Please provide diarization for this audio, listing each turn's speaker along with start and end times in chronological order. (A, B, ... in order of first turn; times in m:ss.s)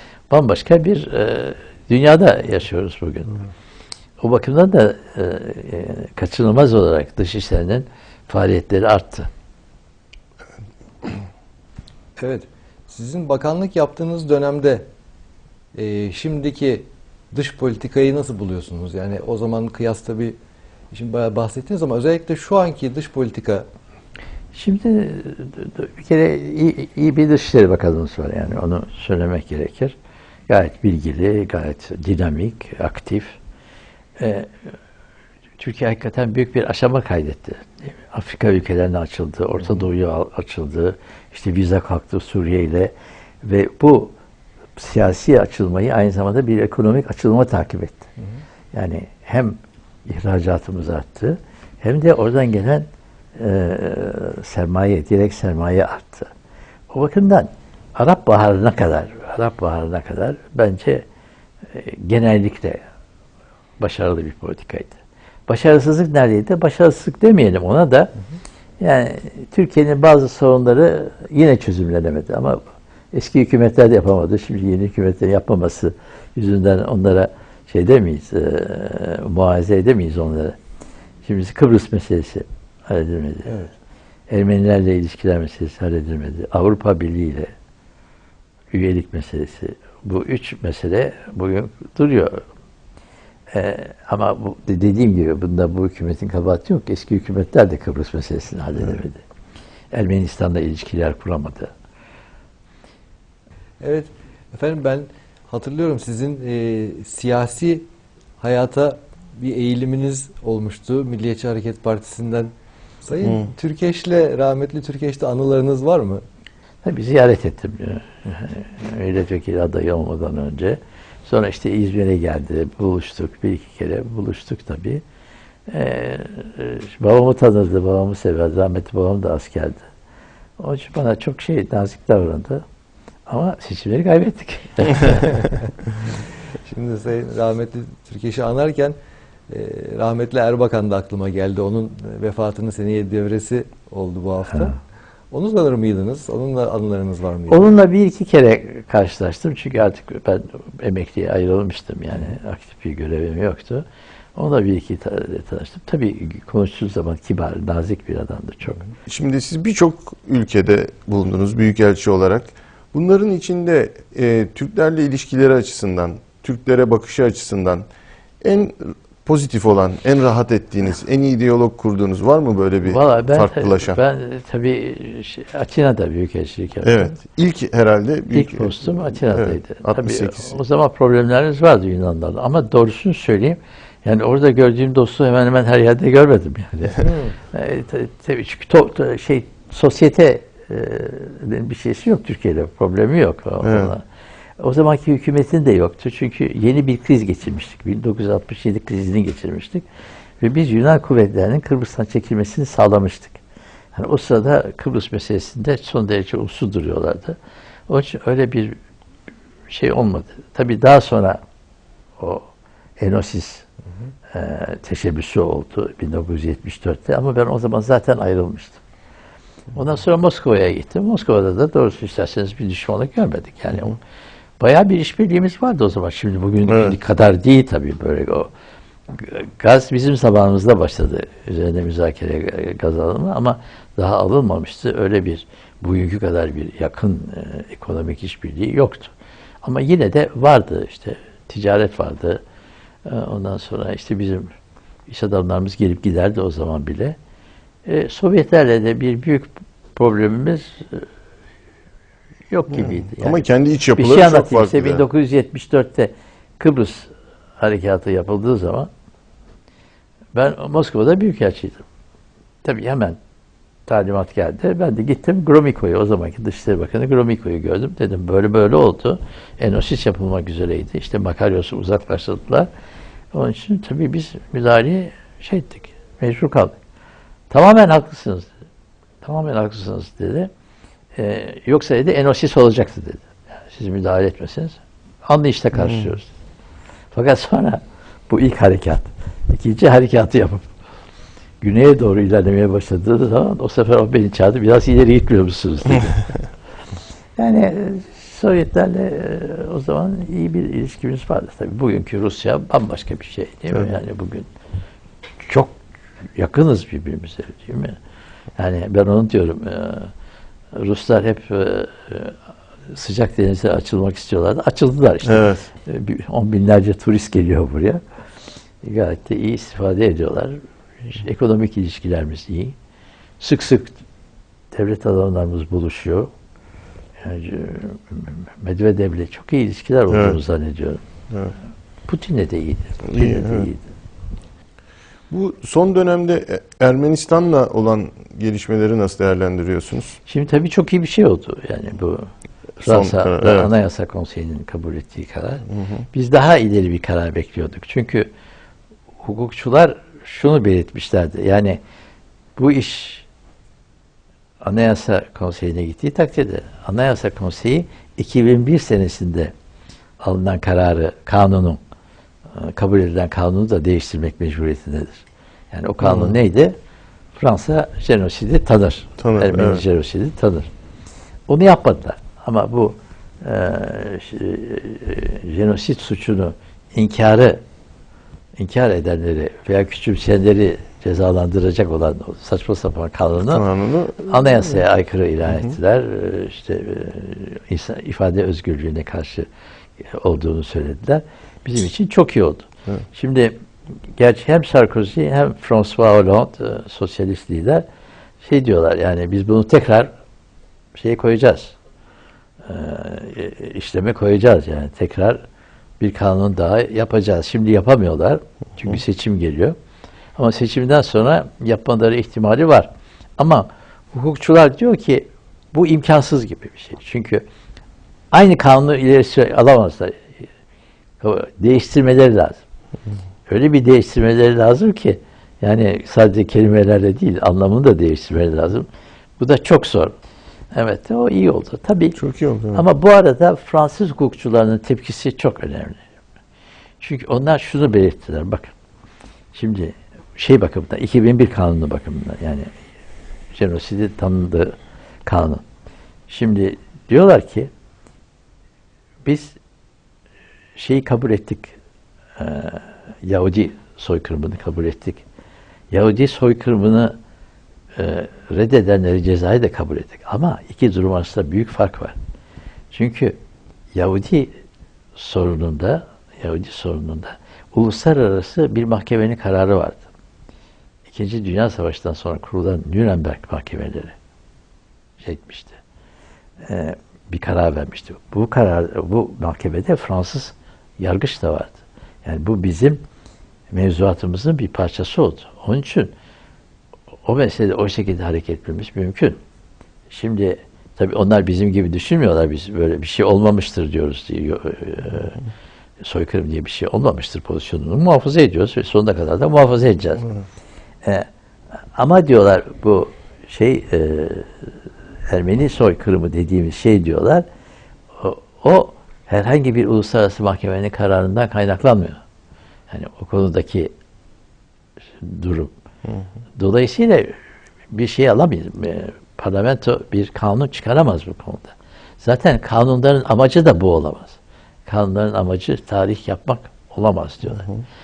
0:00.3-0:03.4 A
0:04.2-0:09.3 A
0:12.2-0:14.9 B
0:15.7-0:20.4 B
0:20.9-0:23.7 B
0:24.5-0:30.0 A
0:30.5-0:33.4 A
0:34.2-0:34.5 A
0:35.6-0:44.1 A
0:44.8-0:48.1 A
0:48.7-0:56.3 A
0:56.9-1:01.0 A
1:01.7-1:02.8 A
1:03.8-1:05.0 A
1:05.5-1:08.1 A
1:08.8-1:12.6 A
1:13.1-1:20.6 A
1:21.2-1:23.6 A
1:23.4-1:23.7 B
1:24.3-1:27.5 A
1:28.7-1:32.4 A
1:33.5-1:39.2 A
1:39.9-1:41.7 A
1:43.8-1:47.9 B
1:48.4-1:52.5 B
1:53.0-1:56.2 B
1:56.8-2:05.0 A
2:05.7-2:09.8 A
2:10.6-2:12.6 A
2:13.3-2:15.6 A
2:16.5-2:18.9 B
2:19.5-2:24.8 B
2:25.3-2:27.7 B
2:27.5-2:33.8 A
2:34.4-2:38.8 A
2:39.1-2:47.8 C
2:48.4-2:54.0 C
2:52.8-2:57.1 A
2:56.8-3:00.6 C
2:58.3-3:14.0 A
3:07.0-3:07.4 B
3:13.6-3:13.9 C
3:14.6-3:19.8 A
3:20.4-3:23.4 A
3:23.9-3:27.4 A
3:27.9-3:28.8 A
3:29.7-3:31.4 A
3:32.2-3:32.5 A
3:33.0-3:33.6 A
3:34.3-3:38.8 A
3:39.7-3:44.0 A
3:44.6-3:48.5 A
3:46.6-3:47.0 C
3:49.1-3:59.1 A
3:59.6-4:02.4 A
4:03.0-4:04.5 A
4:05.1-4:07.2 A
4:07.8-4:11.0 A
4:12.5-4:13.4 A
4:12.8-4:15.0 C
4:14.0-4:18.9 A
4:20.3-4:21.8 A
4:22.6-4:23.2 A
4:23.9-4:32.7 A
4:33.3-4:36.7 A
4:37.5-4:38.5 A
4:39.2-4:40.5 A
4:41.2-4:46.3 A
4:47.1-4:50.6 A
4:51.6-4:56.4 A
4:57.4-5:04.4 A
5:05.4-5:05.7 A
5:06.3-5:08.0 A
5:08.6-5:10.1 A
5:10.7-5:12.4 A
5:12.9-5:18.0 A
5:15.2-5:15.6 C
5:18.8-5:22.7 A
5:23.4-5:24.0 A
5:24.7-5:26.3 A
5:27.2-5:31.0 A
5:30.1-5:30.4 C
5:32.1-5:33.8 A
5:33.0-5:33.7 C
5:35.3-5:40.2 C
5:40.2-5:42.3 A
5:42.8-5:43.7 C
5:42.8-5:48.3 A
5:45.7-5:46.0 C
5:49.2-5:51.8 A
5:52.6-5:53.2 A
5:54.6-5:59.5 A
6:00.2-6:01.8 A
6:02.5-6:06.7 A
6:06.0-6:06.4 C
6:07.4-6:10.7 A
6:09.2-6:09.8 C
6:11.5-6:17.6 A
6:18.6-6:23.6 A
6:23.5-6:24.8 C
6:24.2-6:29.5 A
6:30.0-6:33.5 A
6:34.1-6:37.8 A
6:38.4-6:40.1 A
6:40.9-6:41.7 A
6:42.6-6:45.4 A
6:46.0-6:49.8 A
6:50.4-6:57.4 A
6:58.3-7:00.4 A
7:01.2-7:02.6 A
7:03.5-7:08.9 A
7:09.4-7:10.1 A
7:10.7-7:12.2 A
7:12.2-7:12.8 C
7:12.7-7:16.0 A
7:17.0-7:18.7 A
7:19.5-7:22.7 A
7:23.5-7:25.6 A
7:26.3-7:27.7 A
7:29.2-7:29.6 A
7:30.8-7:31.7 A
7:32.4-7:35.2 A
7:35.9-7:37.2 A
7:38.0-7:42.2 A
7:42.9-7:43.4 A
7:43.9-7:44.5 A
7:45.2-7:50.0 A
7:51.1-7:54.1 A
7:55.2-7:55.8 A
7:56.6-8:03.0 A
8:03.7-8:06.1 A
8:07.2-8:09.4 A
8:10.1-8:15.4 A
8:16.0-8:20.3 A
8:21.9-8:24.7 A
8:25.3-8:27.4 A
8:28.2-8:32.2 A
8:32.9-8:33.9 A
8:35.2-8:35.7 A
8:36.6-8:37.3 A
8:37.9-8:44.4 A
8:44.9-8:47.7 A